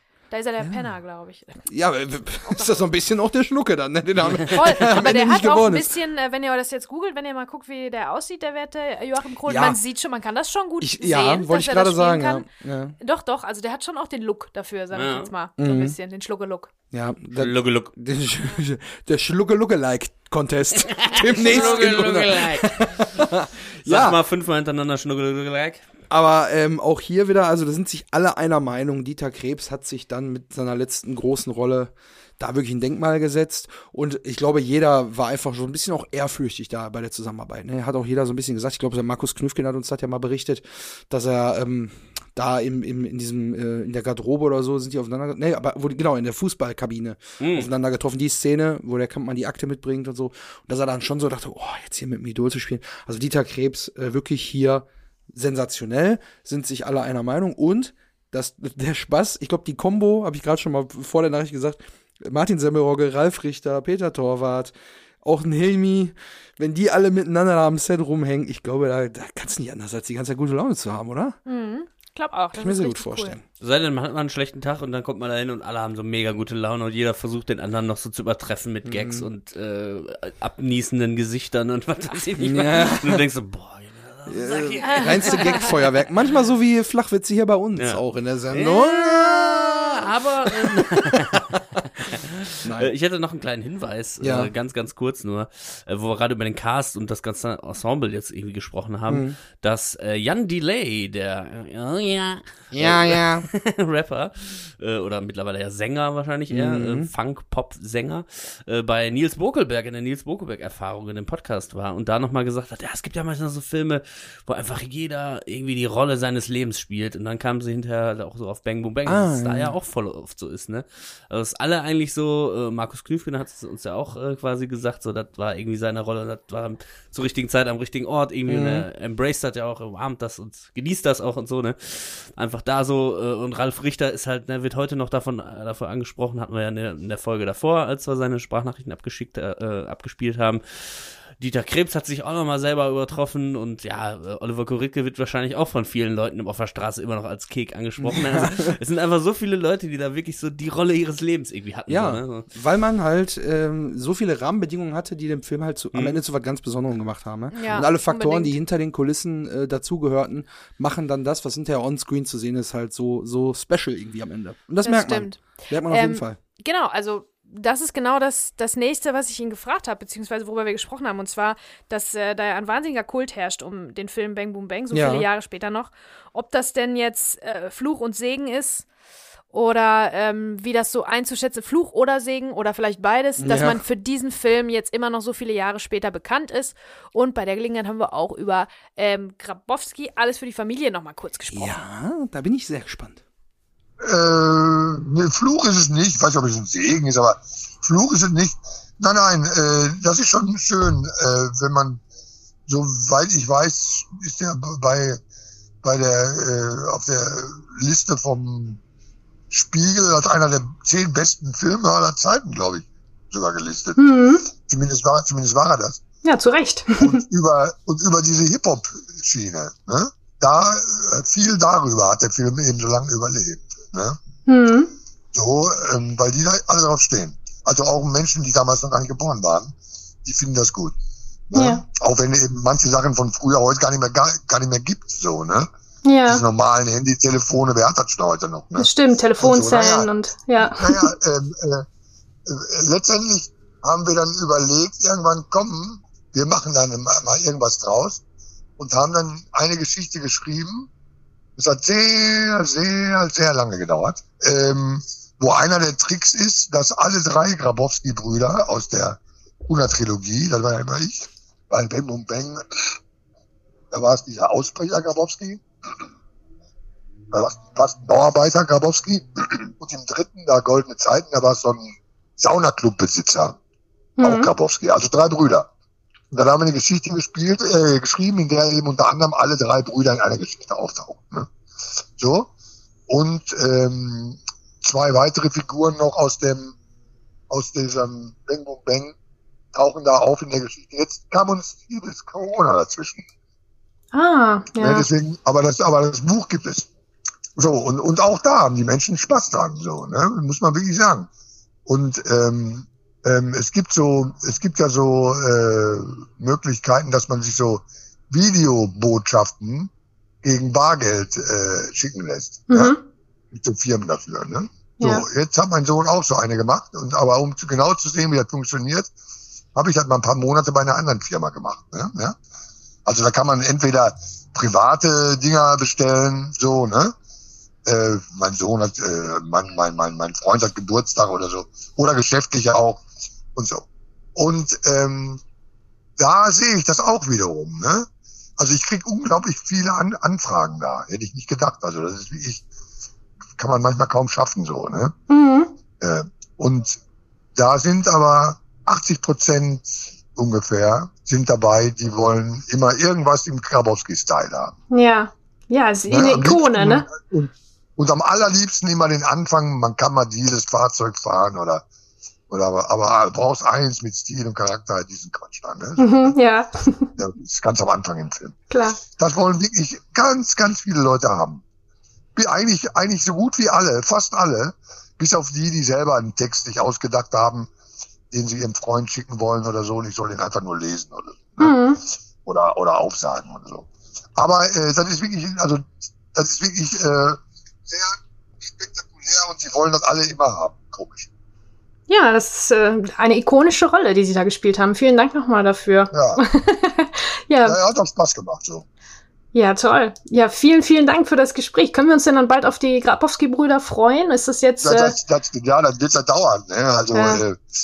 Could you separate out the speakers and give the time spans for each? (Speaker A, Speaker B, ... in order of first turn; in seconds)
Speaker A: 0.3-1.6, 2.4-2.9, 4.5-12.5, 13.0-16.7, 71.5-73.3, 84.9-85.6, 157.5-158.6, 164.8-178.8, 179.5-191.8
Speaker B: 0.6-0.9, 1.7-5.9, 9.4-9.8, 10.8-12.9, 15.6-15.9, 16.9-24.2, 26.1-71.4, 72.5-73.4, 78.8-79.3, 82.4-83.2, 84.3-90.0, 90.5-90.8, 92.6-92.9, 94.2-94.5, 99.1-99.4, 102.7-103.5, 106.5-107.1, 119.0-119.7, 128.5-128.8, 148.0-148.7, 151.9-166.4, 174.9-175.2, 183.4-183.8, 191.5-193.2
Speaker C: 14.9-15.3, 17.3-17.9, 20.9-23.2, 23.8-25.8, 47.4-47.7, 73.6-85.8, 87.8-152.5, 155.9-156.2
Speaker D: 194.0-202.0, 202.7-205.2, 205.8-208.8, 209.5-214.0, 214.5-216.0, 217.0-224.2, 225.3-230.9, 231.5-235.7, 236.2-241.8, 242.4-248.2, 248.8-250.9, 251.6-263.0, 263.9-265.6, 267.3-273.6, 274.2-275.7, 276.3-281.5, 282.2-282.5, 283.1-286.7, 287.5-289.1, 289.7-293.2, 294.8-296.9, 297.6-301.3, 301.9-309.9, 310.4-312.9, 313.5-319.1, 319.7-322.4, 323.1-327.1, 327.9-333.0, 333.5-335.4, 336.2-342.6, 343.6-345.1, 346.0-347.0, 347.6-354.7, 356.1-361.8, 362.5-366.4, 367.2-371.6, 372.4-377.7, 378.3-381.8, 382.4-391.3, 396.1-396.4, 397.6-398.9, 404.8-407.6
Speaker E: 214.0-214.5, 216.2-217.2, 224.4-224.9, 231.5-231.8, 236.0-236.4, 238.8-241.1, 274.2-274.5, 294.1-295.1, 312.7-313.0, 315.0-315.2, 345.3-345.7, 354.9-357.1, 366.0-367.1, 368.7-369.0, 381.6-382.0, 392.1-397.8, 399.5-405.1, 407.1-407.4